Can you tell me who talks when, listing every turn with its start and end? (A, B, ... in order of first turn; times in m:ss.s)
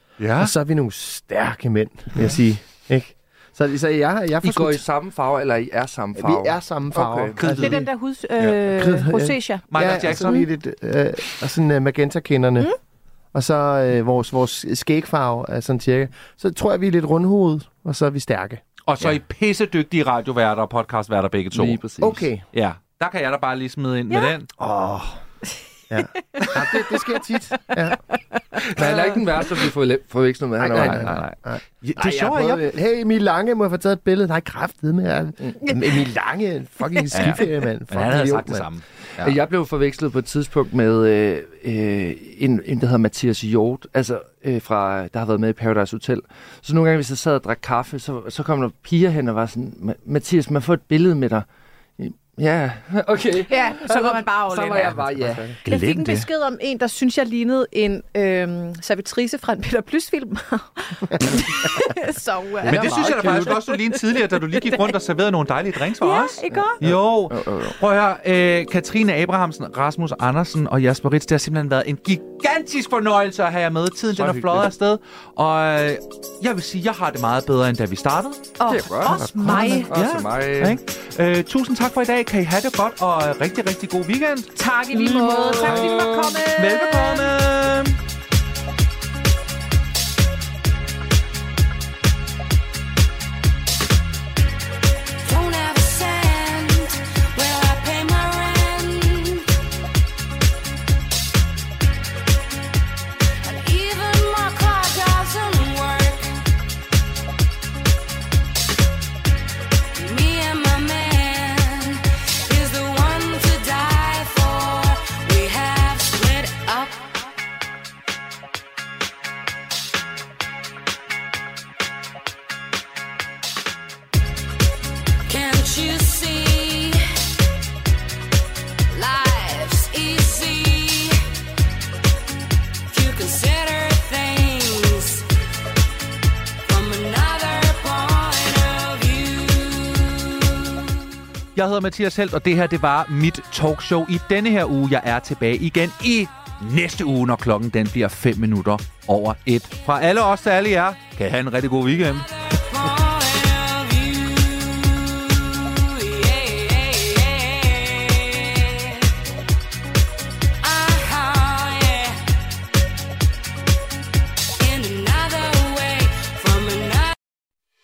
0:00.2-0:00.5 A
0:00.4-0:04.8 B
0:04.4-0:07.4 C
0:06.2-0:07.8 B
0:07.4-0:07.9 A
0:07.6-0:09.6 D
0:08.6-0:12.7 B
0:09.7-0:10.5 A
0:13.3-0:18.6 B
0:18.9-0:24.5 A
0:21.5-0:22.2 C
0:22.0-0:22.4 B
0:24.6-0:25.2 B
0:25.9-0:28.0 B
0:28.7-0:31.2 C
0:28.8-0:29.0 B
0:30.6-0:38.7 B
0:30.8-0:32.7 A
0:37.1-0:39.4 A
0:39.2-0:51.5 C
0:52.0-0:55.6 C
0:53.5-0:55.0 D
0:55.2-0:55.6 B
0:55.6-0:56.3 A
0:55.6-1:04.9 D
1:02.6-1:03.5 C
1:02.6-1:18.5 A
1:06.0-1:06.8 D
1:06.5-1:07.8 C
1:14.1-1:14.7 C
1:18.6-1:19.9 D
1:18.7-1:20.8 C
1:19.0-1:19.9 B
1:19.9-1:24.5 A
1:24.6-1:27.3 D
1:24.9-1:26.4 C
1:25.5-1:28.0 A
1:35.2-1:39.5 E
1:43.4-1:46.3 E
1:50.0-1:57.2 E
2:05.3-2:07.0 E
2:08.9-2:11.2 E
2:12.9-2:15.2 E
2:16.7-2:20.9 E
2:21.6-2:32.3 A
2:32.4-2:39.1 E
2:40.6-2:42.2 E
2:44.6-2:47.1 E